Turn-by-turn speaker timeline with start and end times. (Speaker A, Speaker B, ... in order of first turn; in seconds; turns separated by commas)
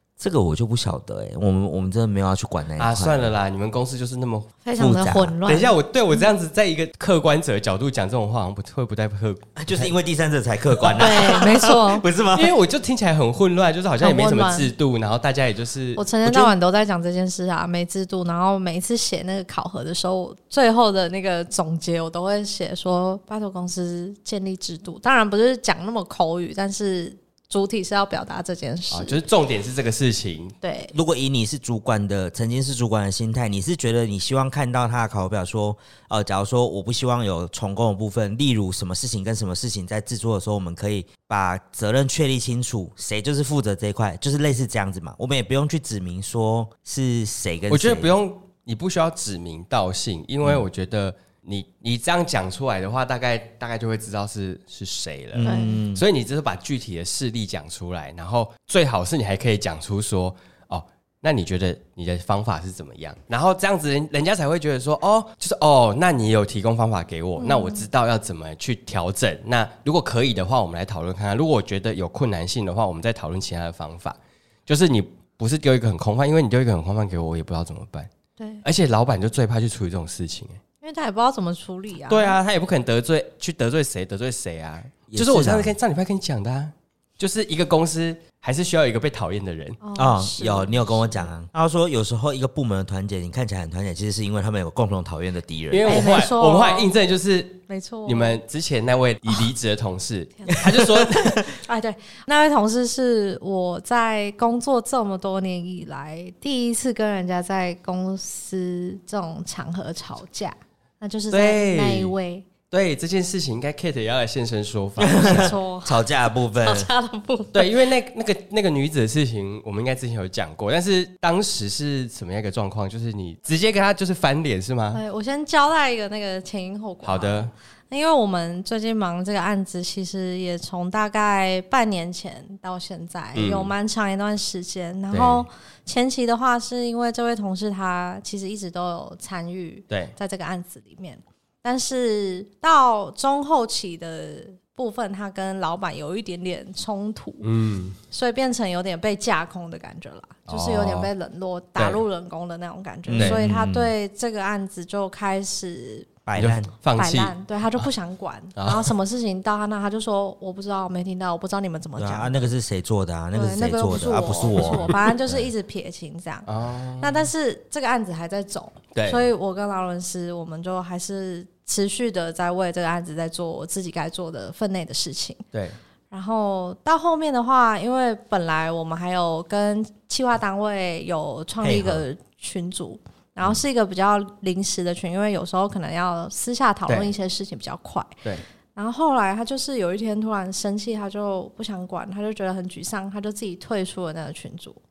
Speaker A: 0.2-3.3, Speaker B: 2.8-4.5, Speaker C: 4.7-5.7, Speaker A: 4.8-5.4, Speaker B: 5.5-9.9, Speaker A: 9.6-12.5, Speaker B: 10.8-11.0, Speaker C: 10.9-12.1, Speaker B: 12.3-16.5, Speaker C: 14.0-14.7, Speaker C: 16.0-29.2, Speaker B: 28.9-30.6, Speaker C: 30.6-30.9, Speaker A: 30.9-48.2, Speaker B: 47.7-78.1, Speaker A: 55.3-56.0, Speaker C: 55.5-55.8, Speaker C: 67.4-67.9, Speaker C: 78.4-78.6, Speaker B: 78.6-80.6, Speaker C: 80.8-82.4, Speaker B: 82.1-89.8, Speaker A: 85.1-85.8, Speaker C: 89.8-91.3, Speaker A: 90.0-96.0, Speaker B: 95.7-101.5, Speaker C: 95.8-96.9, Speaker C: 97.7-98.4, Speaker C: 100.4-100.7, Speaker C: 101.4-112.5, Speaker B: 111.3-112.1, Speaker B: 112.7-115.5, Speaker A: 115.0-116.9, Speaker C: 115.1-117.7, Speaker B: 117.5-125.0, Speaker C: 124.9-147.5, Speaker B: 127.0-127.5, Speaker B: 133.3-133.7, Speaker B: 135.1-135.5, Speaker B: 147.4-148.0, Speaker C: 148.1-156.2, Speaker B: 150.5-151.1, Speaker B: 151.8-152.0, Speaker B: 153.1-153.4, Speaker A: 153.1-153.9, Speaker A: 156.3-156.7, Speaker B: 156.4-157.9, Speaker C: 157.0-162.5, Speaker B: 158.6-158.9, Speaker A: 162.0-165.0, Speaker C: 163.3-166.5, Speaker B: 164.6-165.5, Speaker B: 166.5-167.3, Speaker C: 167.0-175.4, Speaker B: 168.9-169.3, Speaker C: 176.1-188.2, Speaker A: 181.6-182.0, Speaker C: 188.8-194.8